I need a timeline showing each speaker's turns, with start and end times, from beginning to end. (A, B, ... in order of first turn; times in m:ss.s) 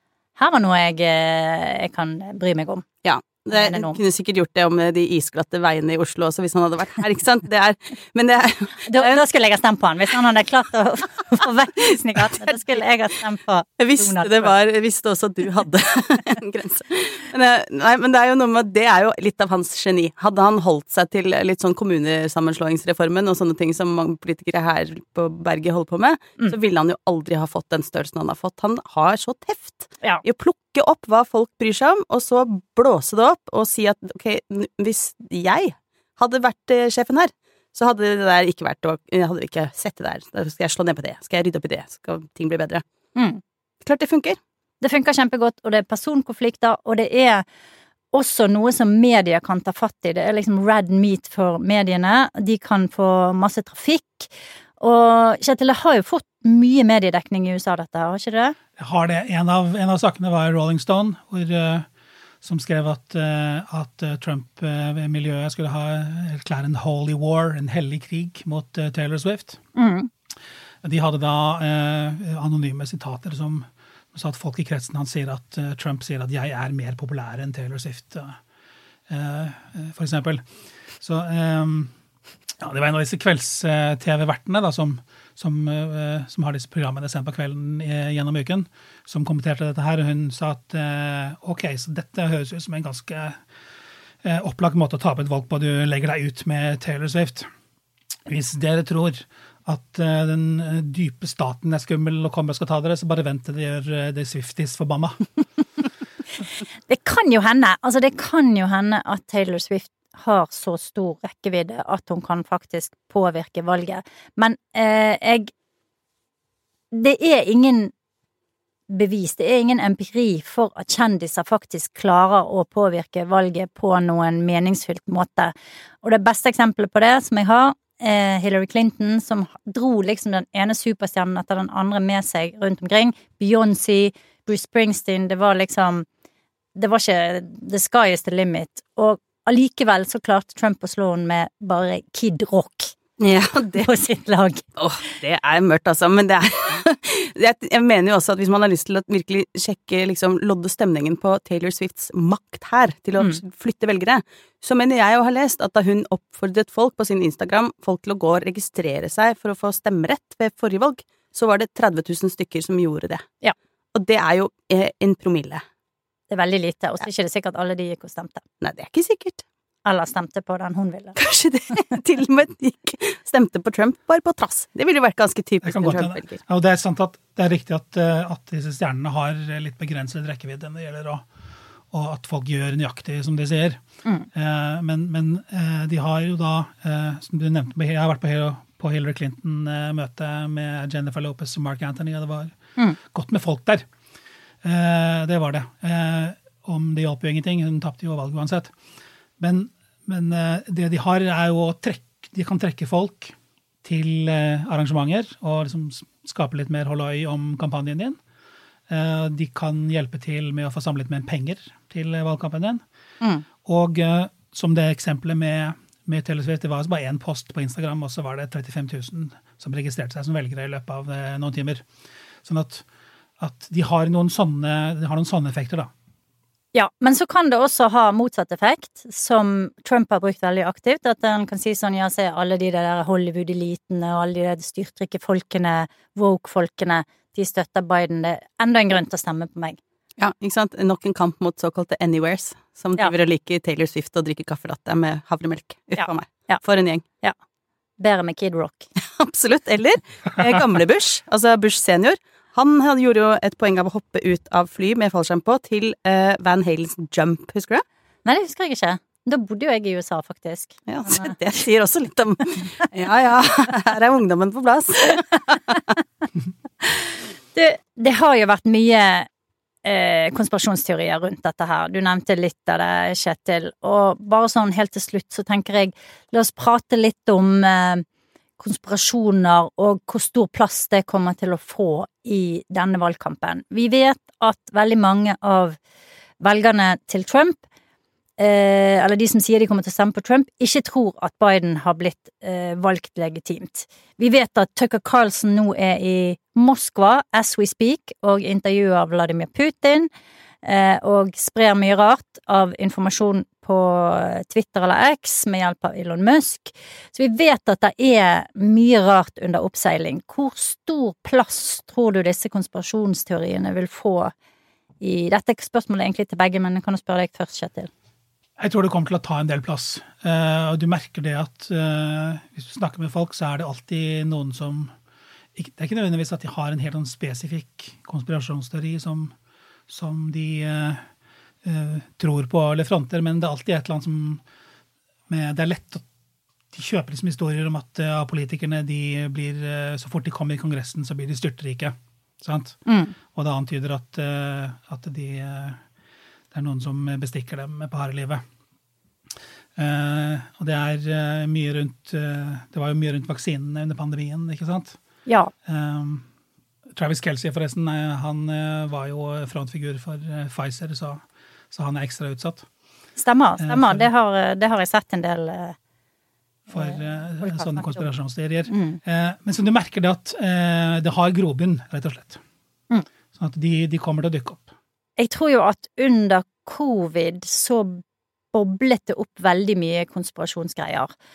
0:00.4-0:02.9 A
0:03.0-0:09.2 B
0:03.5-0:04.0 A
0:08.9-0:14.5 A
0:13.8-0:42.8 B
0:43.2-0:43.4 A
0:43.8-0:44.4 B
0:44.8-0:47.4 A
0:48.1-0:58.6 A
0:58.8-1:01.9 C
1:02.4-1:09.6 C
1:09.8-1:10.1 A
1:10.8-1:18.4 C
1:19.1-1:20.4 C
1:21.0-1:21.9 C
1:22.6-1:33.4 C
1:34.2-1:37.5 C
1:38.3-1:45.2 C
1:46.9-1:55.5 A
1:56.9-1:57.9 A
1:58.9-2:16.1 A
2:16.8-2:23.0 A
2:23.2-2:23.9 B
2:23.8-2:24.6 A
2:24.8-2:43.3 B
2:43.9-2:45.6 B
2:46.3-2:48.4 A
2:48.6-2:49.4 B
2:49.8-2:51.2 A
2:51.2-2:56.4 B
2:55.6-3:01.2 C
3:01.9-3:03.8 C
3:04.3-3:12.5 C
3:13.0-3:13.8 C
3:14.6-3:18.7 C
3:19.4-3:28.2 C
3:28.9-3:32.8 C
3:33.6-3:41.8 C
3:42.4-3:42.8 C
3:43.4-3:45.9 C
3:46.7-3:59.8 A
4:00.2-4:07.0 B
4:06.0-4:06.6 A
4:08.0-4:08.9 A
4:09.0-4:17.8 B
4:18.3-4:21.4 A
4:20.9-4:25.8 B
4:27.5-4:29.3 A
4:29.8-4:38.0 A
4:38.6-4:45.8 A
4:46.4-4:47.6 A
4:48.4-5:00.1 A
5:00.6-5:14.3 A
5:15.0-5:17.9 A
5:18.6-5:24.9 C
5:25.6-5:29.3 C
5:29.9-5:31.0 C
5:31.6-5:34.4 C
5:35.3-5:36.1 C
5:36.7-5:42.8 C
5:42.9-5:43.2 A
5:43.3-5:45.8 C
5:46.5-5:48.4 C
5:49.8-5:55.0 C
5:55.3-5:55.5 A
5:55.7-5:56.3 C
5:56.9-6:02.7 C
6:03.2-6:05.8 A
6:03.6-6:04.1 C
6:06.7-6:12.4 C
6:06.7-6:08.1 A
6:08.7-6:09.0 A
6:13.4-6:14.7 C
6:15.2-6:18.0 A
6:18.5-6:21.1 A